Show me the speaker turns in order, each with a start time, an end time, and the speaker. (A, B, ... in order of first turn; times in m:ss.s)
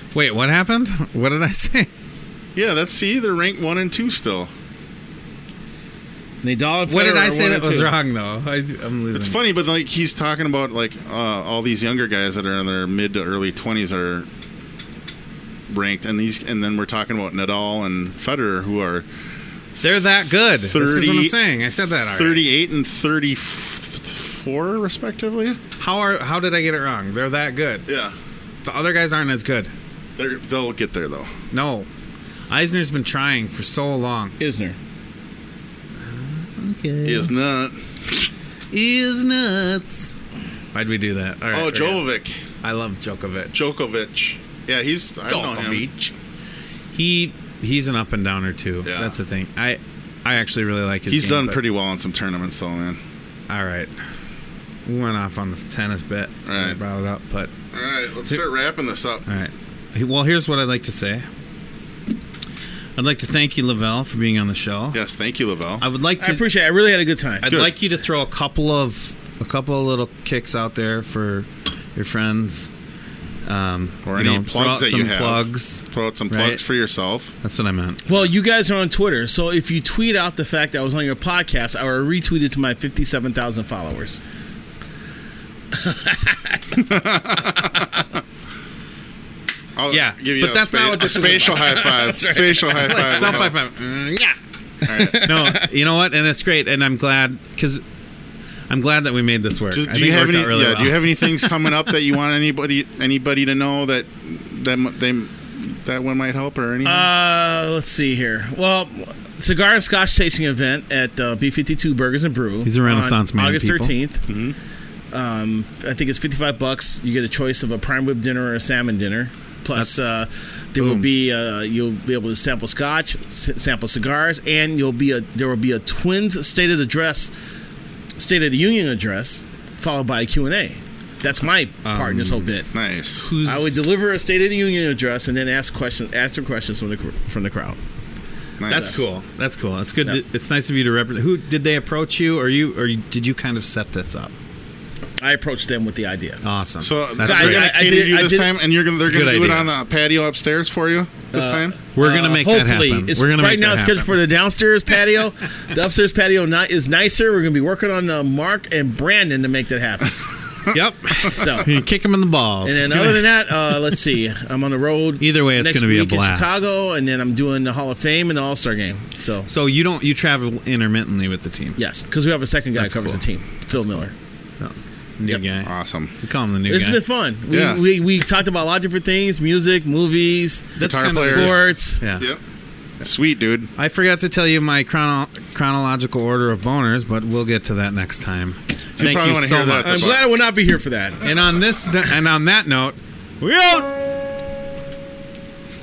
0:00.1-0:01.9 A
0:02.5-0:04.5 B
0:06.4-0:07.9 C
0:06.9-0:09.4 A
0:09.1-0:14.3 B
0:15.7-0:19.0 B
0:19.8-0:22.4 A
0:20.7-0:21.4 B
0:22.1-0:25.6 B
0:25.8-0:27.9 A
0:27.8-0:28.1 B
0:28.6-0:29.7 A
0:30.2-0:31.3 B
0:31.5-0:31.9 A
0:32.5-0:34.4 A
0:34.4-0:34.8 C
0:36.1-0:37.3 A
0:37.0-0:38.3 B
0:38.7-0:40.2 A
0:40.7-0:42.0 A
0:41.5-0:42.4 B
0:42.6-0:43.6 A
0:43.5-0:45.8 B
0:45.2-0:46.1 A
0:46.9-0:51.6 A
0:48.8-0:49.1 B
0:51.1-0:53.0 B
0:53.5-0:53.9 A
0:54.8-0:57.5 A
0:56.4-0:56.8 B
0:57.7-0:59.2 B
0:59.2-1:01.2 A
1:03.0-1:05.0 A
1:04.9-1:05.8 B
1:05.8-1:06.4 A
1:06.2-1:07.7 C
1:07.4-1:12.7 A
1:13.4-1:16.6 A
1:14.0-1:17.3 B
1:17.4-1:18.2 A
1:18.0-1:24.2 C
1:25.7-1:27.4 C
1:26.8-1:28.0 B
1:29.8-1:33.5 B
1:29.9-1:31.9 A
1:31.3-1:33.4 C
1:32.7-1:34.3 A
1:34.8-1:35.7 C
1:34.8-1:35.2 B
1:35.1-1:37.8 A
1:38.7-1:41.4 A
1:39.7-1:47.1 B
1:46.8-1:54.2 C
1:52.6-1:53.9 A
1:54.3-1:54.5 B
1:55.1-2:07.3 C
2:00.8-2:01.0 A
2:08.2-2:12.7 C
2:11.8-2:12.5 A
2:12.7-2:13.3 B
2:13.2-2:13.8 A
2:13.4-2:17.8 C
2:18.6-2:19.0 B
2:18.7-2:19.0 C
2:18.7-2:24.3 A
2:25.2-2:26.4 C
2:26.4-2:27.7 A
2:26.8-2:31.8 B
2:27.2-2:28.5 C
2:29.0-2:29.7 A
2:31.3-2:40.2 C
2:31.9-2:34.1 A
2:40.7-2:43.3 A
2:41.3-2:41.7 C
2:42.6-2:49.5 C
2:45.2-2:46.6 A
2:49.5-2:51.8 A
2:51.8-2:54.1 C
2:52.8-2:53.2 A
2:53.7-2:54.0 A
2:54.6-2:57.0 A
2:55.6-2:56.1 B
2:56.7-3:02.0 C
2:57.5-2:57.8 B
3:00.8-3:02.3 A
3:00.8-3:01.6 B
3:03.0-3:03.7 B
3:03.8-3:10.2 A
3:09.0-3:10.2 B
3:09.8-3:11.3 C
3:11.2-3:14.0 A